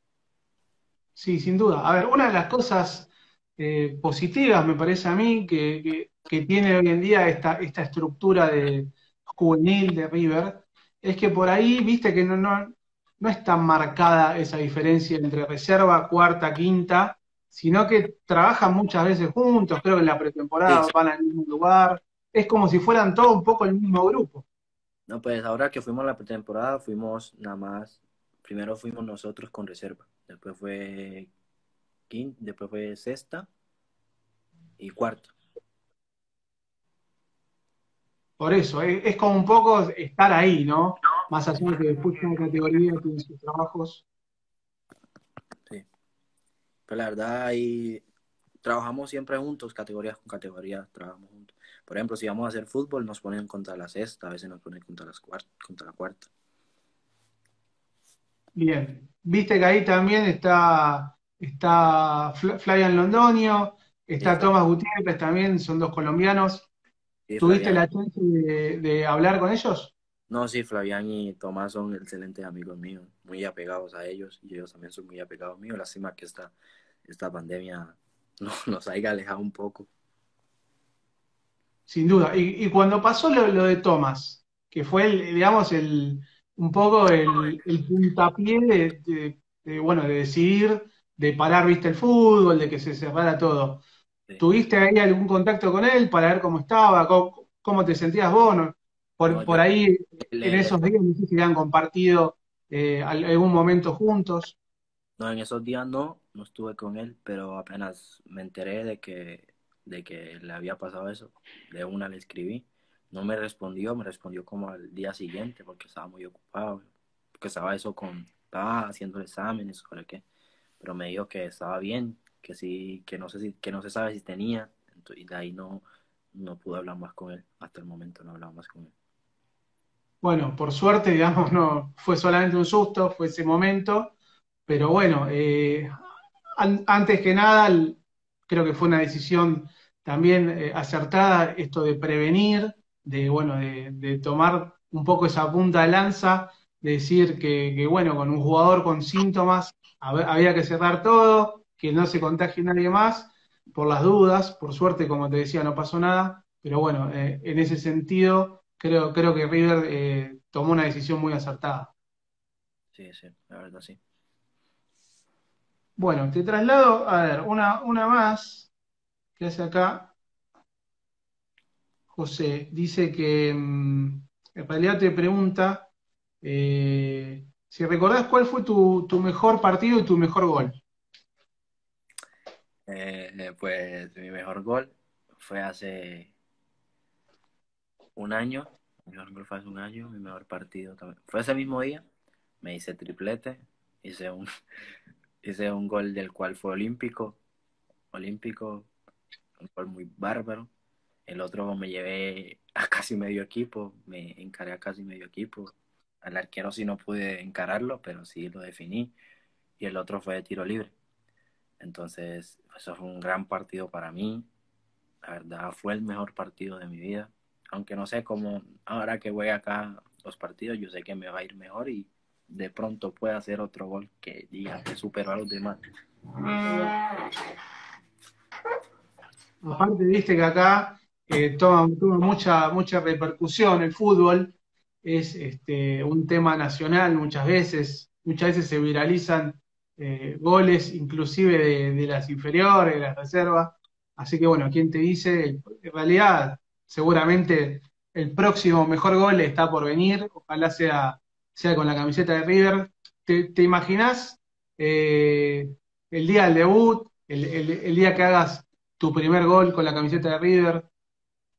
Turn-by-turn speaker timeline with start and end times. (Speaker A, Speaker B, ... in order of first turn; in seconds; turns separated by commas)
Speaker A: 1.1-24.4, Speaker B: 25.1-31.3, Speaker B: 32.1-33.5, Speaker B: 34.8-35.3, Speaker A: 38.4-44.0, Speaker B: 46.9-48.0, Speaker B: 48.6-56.3, Speaker A: 58.5-66.7, Speaker B: 64.2-64.5, Speaker B: 67.3-67.8, Speaker A: 67.4-69.9, Speaker B: 70.3-76.5, Speaker B: 77.0-79.9, Speaker A: 81.9-93.8, Speaker A: 94.4-104.5, Speaker B: 99.2-99.6, Speaker B: 100.3-100.9, Speaker B: 105.2-120.2, Speaker B: 120.8-128.9, Speaker A: 130.2-134.1, Speaker A: 134.7-135.9, Speaker A: 136.6-161.9, Speaker B: 162.9-164.0, Speaker A: 166.0-168.7, Speaker A: 169.4-170.1, Speaker A: 172.1-175.9, Speaker A: 176.4-180.8, Speaker B: 182.9-186.3, Speaker B: 188.2-192.0, Speaker B: 192.6-194.4, Speaker B: 195.4-197.4, Speaker B: 198.1-198.9, Speaker B: 199.6-200.7, Speaker B: 201.3-209.1, Speaker B: 209.8-210.9, Speaker B: 211.8-214.4, Speaker B: 215.2-225.8, Speaker A: 229.6-260.9